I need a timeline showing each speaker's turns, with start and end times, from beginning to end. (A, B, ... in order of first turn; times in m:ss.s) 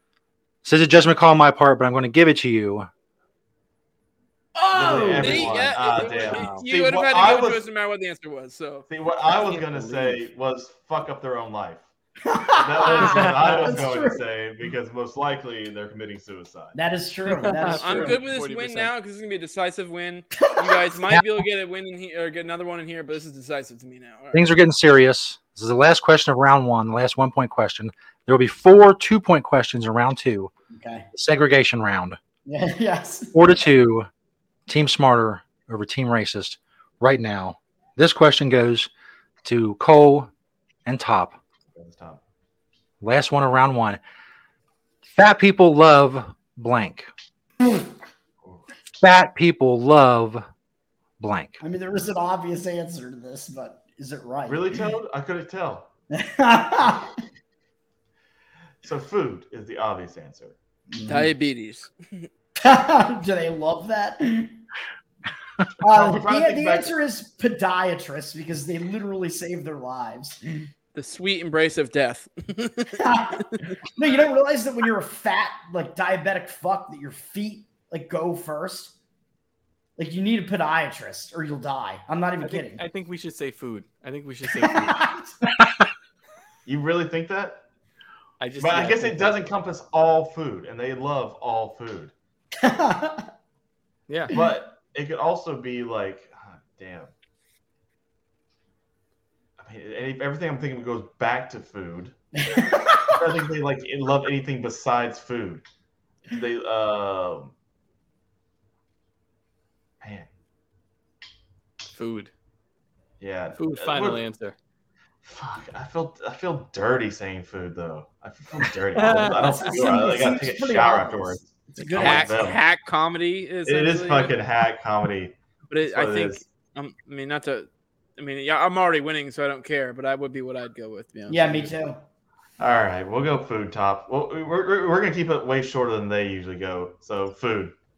0:00.6-0:02.9 A
0:04.6-0:05.7 B
0:04.7-0:07.6 C
0:04.8-0:08.8 D
0:06.0-0:06.6 E
0:08.9-0:11.9 C
0:09.3-0:10.3 E
0:12.2-0:14.2 B
0:12.6-0:16.8 C
0:13.0-0:13.8 E
0:16.7-0:18.2 B
0:17.3-0:18.9 E
0:17.7-0:24.5 D
0:20.4-0:20.7 B
0:21.1-0:21.4 A
0:24.3-0:30.5 A
0:30.7-0:31.1 B
0:31.1-0:32.2 A
0:32.4-0:33.3 B
0:33.3-0:34.1 A
0:34.7-0:38.9 A
0:39.4-0:40.3 A
0:40.8-0:41.4 A
0:41.7-0:42.2 C
0:43.0-0:44.0 A
0:45.1-0:47.1 A
0:49.0-0:50.4 A
0:51.2-0:51.6 A
0:51.6-0:54.8 B
0:54.5-0:55.9 C
0:56.1-0:57.1 B
0:58.8-1:00.6 C
1:00.9-1:01.3 B
1:01.1-1:02.3 D
1:02.6-1:04.6 B
1:05.8-1:10.7 B
1:05.9-1:06.9 C
1:10.9-1:13.0 D
1:13.0-1:18.9 B
1:20.0-1:22.8 B
1:22.4-1:25.1 E
1:24.5-1:25.3 B
1:26.6-1:27.6 C
1:28.4-1:29.5 E
1:28.6-1:32.1 C
1:32.6-1:33.3 B
1:34.1-1:34.3 E
1:34.3-1:37.1 C
1:39.6-1:45.6 C
1:42.4-1:43.4 B
1:46.3-1:47.5 C
1:50.0-1:50.3 C
1:51.9-1:52.3 E
1:53.2-1:54.2 C
1:53.6-1:54.6 E
1:55.2-2:02.6 C
1:59.0-1:59.7 E
1:59.2-2:02.6 B
2:02.0-2:04.4 D
2:03.6-2:06.4 C
2:05.7-2:11.7 D
2:11.3-2:12.0 B
2:12.6-2:17.7 C